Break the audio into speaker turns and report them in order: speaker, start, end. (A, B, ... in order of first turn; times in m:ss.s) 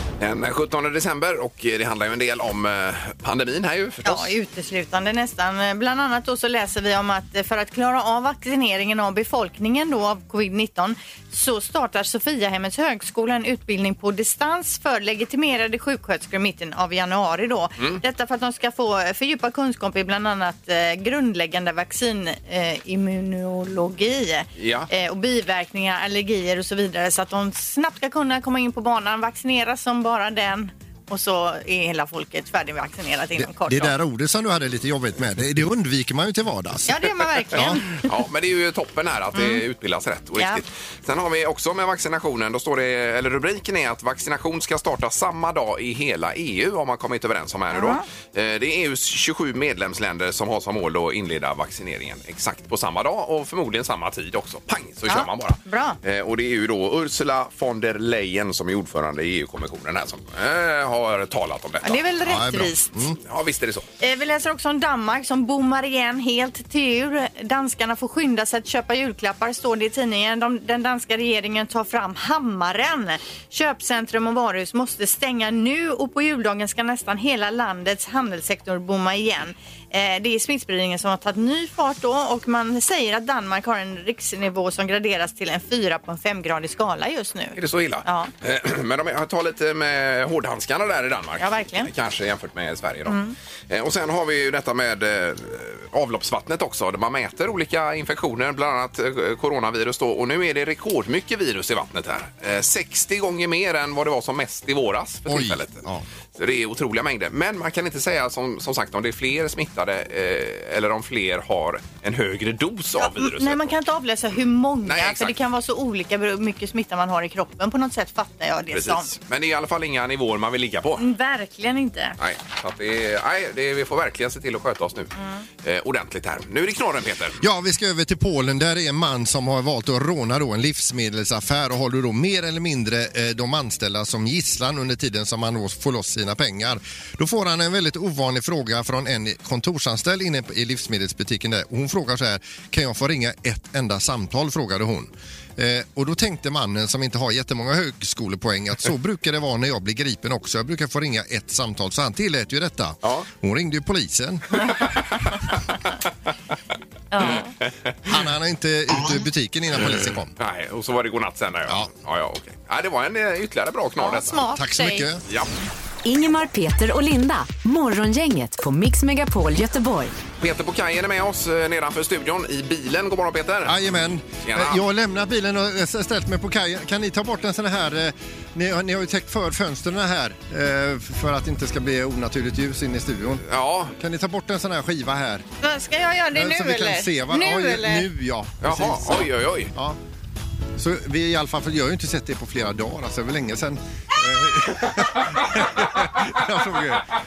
0:00.2-0:04.3 A
0:04.0-0:34.0 B
0:24.6-0:24.9 A
0:33.4-0:37.8 C
0:36.9-0:38.1 B
0:38.0-1:02.0 A
0:39.4-0:39.6 B
0:40.4-0:40.6 B
0:47.7-0:48.0 B
0:55.1-0:56.0 B
1:01.8-1:03.0 B
1:02.2-1:03.2 C
1:03.2-1:03.9 A
1:04.0-1:28.3 B
1:27.6-1:45.8 A
1:31.4-1:31.9 B
1:33.1-1:33.3 B
1:45.3-1:46.0 C
1:46.4-1:53.7 A
1:53.0-1:59.1 B
1:54.8-1:55.4 A
1:58.7-2:01.0 A
2:01.0-2:02.2 B
2:02.2-2:05.1 A
2:05.2-2:05.4 B
2:05.6-2:07.4 A
2:07.4-2:34.7 C
2:37.1-2:37.5 B
2:38.1-2:40.3 C
2:39.9-2:44.4 A
2:44.0-2:45.1 B
2:44.5-2:45.2 C
2:46.0-2:50.2 D
2:50.4-2:53.8 A
2:53.6-3:03.4 C
2:54.4-2:54.8 A
3:03.4-3:03.9 A
3:04.0-3:05.4 C
3:05.6-3:08.1 B
3:06.4-3:10.0 C
3:08.6-3:09.7 A
3:10.8-3:17.1 C